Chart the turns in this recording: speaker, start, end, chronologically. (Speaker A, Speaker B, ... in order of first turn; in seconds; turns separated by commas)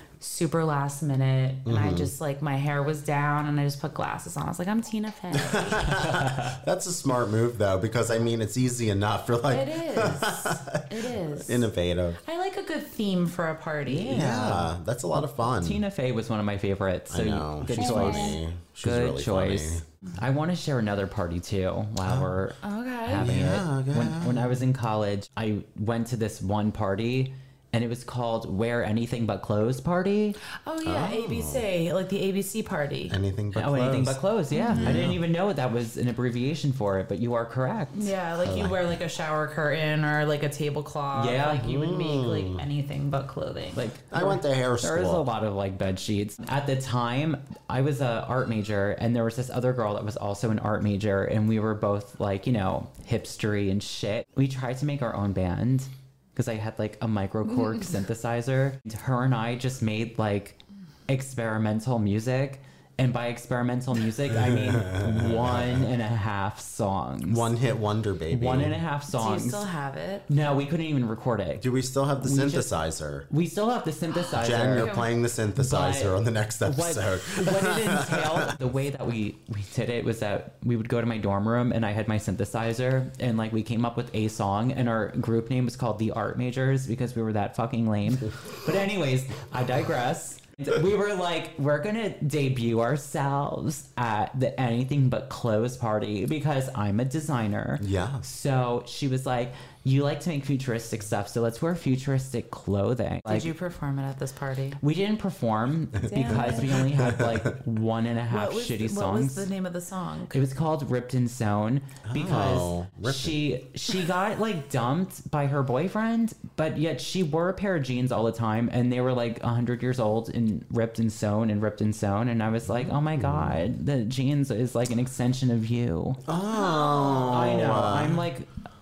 Speaker A: 0.2-5.9, Speaker B: 1.6-2.1, Speaker B: 5.3-12.2, Speaker C: 5.8-6.6, Speaker A: 9.5-11.7, Speaker A: 12.2-14.7, Speaker B: 13.9-15.8, Speaker C: 15.1-30.4, Speaker B: 17.1-19.8, Speaker A: 17.7-18.4, Speaker B: 22.0-22.3, Speaker A: 22.6-23.3, Speaker B: 23.2-24.6, Speaker A: 30.6-33.2, Speaker B: 30.8-31.7, Speaker B: 33.1-34.2, Speaker C: 33.5-38.1, Speaker A: 34.5-35.1, Speaker B: 34.7-35.2, Speaker A: 37.9-43.8, Speaker B: 38.4-38.9, Speaker C: 41.1-41.7, Speaker B: 41.6-42.6, Speaker C: 43.8-67.5, Speaker B: 44.1-45.2, Speaker B: 64.3-65.9, Speaker B: 67.3-68.8, Speaker C: 68.3-69.7, Speaker A: 69.1-70.3, Speaker C: 70.3-71.6, Speaker B: 71.6-73.3, Speaker C: 72.2-72.7, Speaker C: 73.3-75.0, Speaker B: 74.4-78.6, Speaker A: 74.8-75.1, Speaker C: 75.6-103.5, Speaker B: 97.8-98.2, Speaker A: 103.3-104.8, Speaker C: 104.8-109.5, Speaker B: 105.9-107.6, Speaker A: 106.1-106.9, Speaker A: 108.3-110.4, Speaker C: 110.3-126.2, Speaker B: 112.0-113.4, Speaker B: 122.7-123.6, Speaker B: 126.3-128.3, Speaker A: 126.5-127.5, Speaker C: 127.2-128.5